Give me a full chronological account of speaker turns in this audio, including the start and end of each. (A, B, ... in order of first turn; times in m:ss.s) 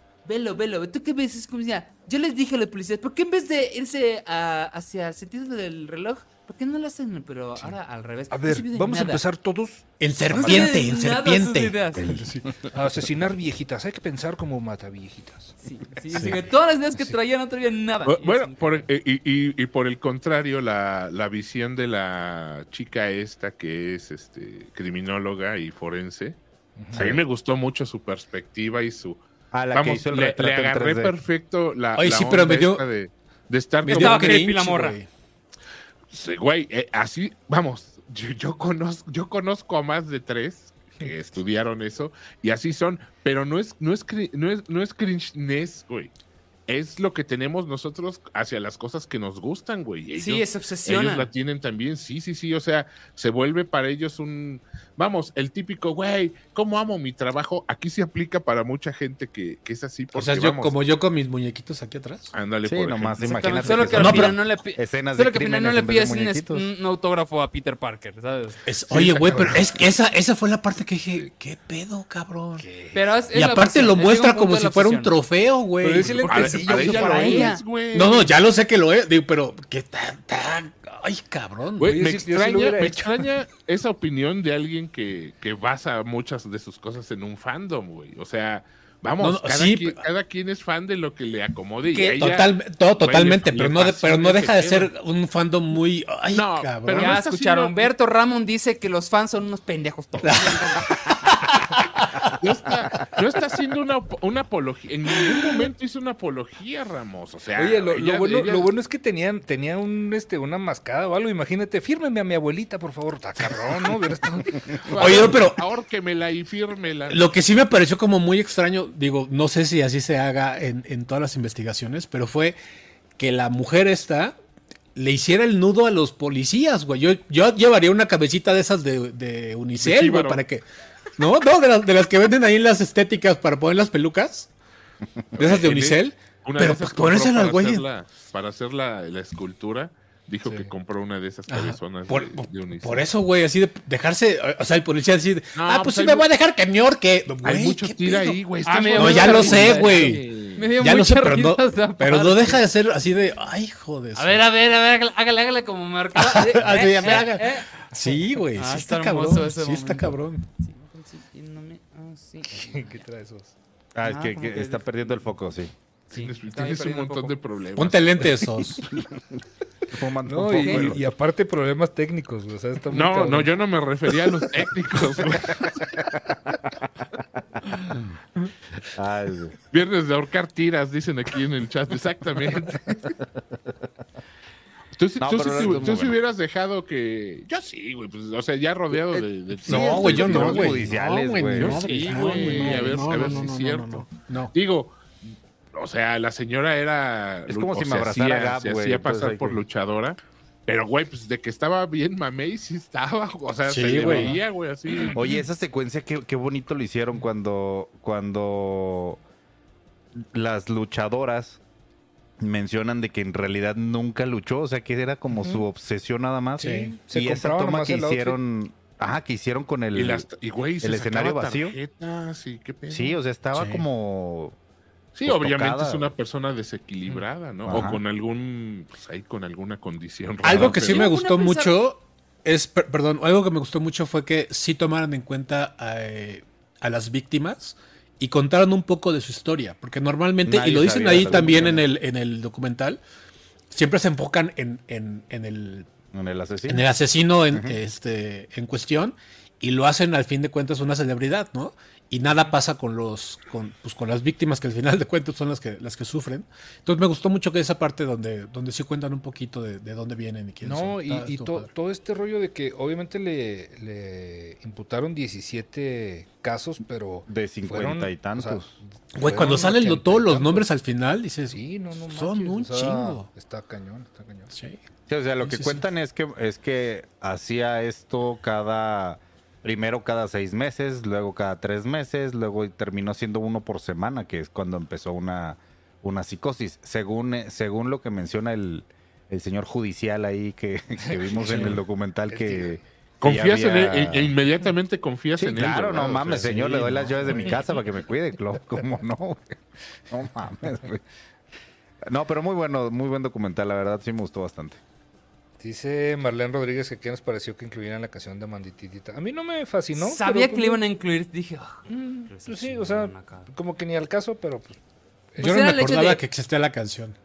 0:00.2-0:09.2 A
0:08.3-0:10.7 B
0:10.0-0:11.8 C
0:10.3-0:12.2 A
0:12.0-0:12.5 D
0:12.1-0:15.6 B
0:15.6-0:18.9 A
0:16.1-0:16.4 C
0:18.0-0:26.4 E
0:26.8-0:27.2 B
0:26.9-0:29.2 E
0:26.9-0:27.2 D
0:29.5-0:31.1 D
0:29.7-0:34.4 E
0:32.0-0:32.8 C
0:33.8-0:35.1 C
0:33.9-0:35.0 A
0:36.1-0:46.1 E
0:46.7-1:00.8 E
0:50.2-0:51.3 A
1:00.1-1:02.3 C
1:02.3-1:03.9 E
1:02.6-1:06.7 D
1:03.2-1:08.6 A
1:03.9-1:04.4 C
1:08.7-1:12.6 C
1:08.9-1:09.7 B
1:12.6-1:13.2 B
1:12.9-1:15.2 A
1:13.3-1:17.3 C
1:15.8-1:17.6 B
1:16.2-1:18.3 E
1:16.6-1:17.6 A
1:17.9-1:22.0 C
1:21.8-1:34.9 E
1:21.9-1:23.2 B
1:29.2-1:30.0 C
1:31.9-1:32.3 A
1:32.2-1:37.2 C
1:36.3-1:37.9 E
1:36.9-1:41.1 A
1:40.2-1:42.3 C
1:42.3-1:48.7 E
1:47.6-1:55.4 B
1:54.9-1:57.3 E
1:54.9-1:55.6 C
1:57.1-2:02.6 C
2:03.2-2:04.3 C
2:05.0-2:10.6 C
2:09.8-2:10.4 E
2:11.2-2:14.5 C
2:15.4-2:23.1 E
2:15.4-2:17.9 C
2:20.4-2:20.7 B
2:21.5-2:28.4 C
2:25.6-2:26.3 E
2:27.4-2:30.7 E
2:28.6-2:32.6 A
2:29.0-2:34.4 C
2:34.2-2:37.8 A
2:36.2-2:40.5 C
2:38.5-2:43.0 A
2:42.5-2:43.5 B
2:44.0-2:45.7 D
2:44.0-2:45.2 A
2:46.1-2:48.4 E
2:46.1-2:47.4 A
2:47.8-2:48.9 C
2:49.9-2:51.1 D
2:50.2-2:53.5 B
2:50.5-2:50.9 A
2:52.9-2:55.8 E
2:55.9-2:56.4 D
2:58.8-2:59.6 D
2:59.7-3:03.1 E
3:05.0-3:10.9 E
3:05.2-3:06.2 D
3:09.0-3:13.1 D
3:09.6-3:14.6 C
3:11.6-3:25.3 E
3:17.5-3:19.6 D
3:23.7-3:24.4 C
3:25.1-3:29.2 D
3:30.2-3:31.6 D
3:32.4-3:40.3 D
3:35.3-3:35.6 B
3:36.6-3:38.4 B
3:36.6-3:37.0 C
3:39.9-3:43.2 E
3:40.8-3:41.8 D
3:42.9-3:44.6 D
3:43.5-3:43.8 C
3:45.1-3:51.1 E
3:45.2-3:46.1 D
3:47.7-3:48.0 D
3:50.4-4:03.0 C
3:50.5-3:50.8 D
3:50.8-3:51.8 A
4:00.4-4:01.9 D
4:03.7-4:05.9 C
4:06.1-4:06.9 D
4:06.7-4:21.7 C
4:07.5-4:07.8 D
4:20.6-4:30.7 B
4:27.3-4:28.7 D
4:29.1-4:33.3 C
4:31.5-4:34.5 B
4:34.5-4:34.8 C
4:35.1-4:54.4 D
4:35.4-4:35.8 C
4:51.1-4:52.8 B
4:51.4-4:51.8 C
4:53.2-4:56.5 E
4:55.4-4:59.6 D
4:55.9-4:57.8 B
5:00.1-5:01.0 D
5:02.0-5:04.8 D
5:05.6-5:10.8 B
5:10.0-5:13.5 A
5:11.9-5:14.8 B
5:15.4-5:16.2 A
5:15.4-5:17.2 C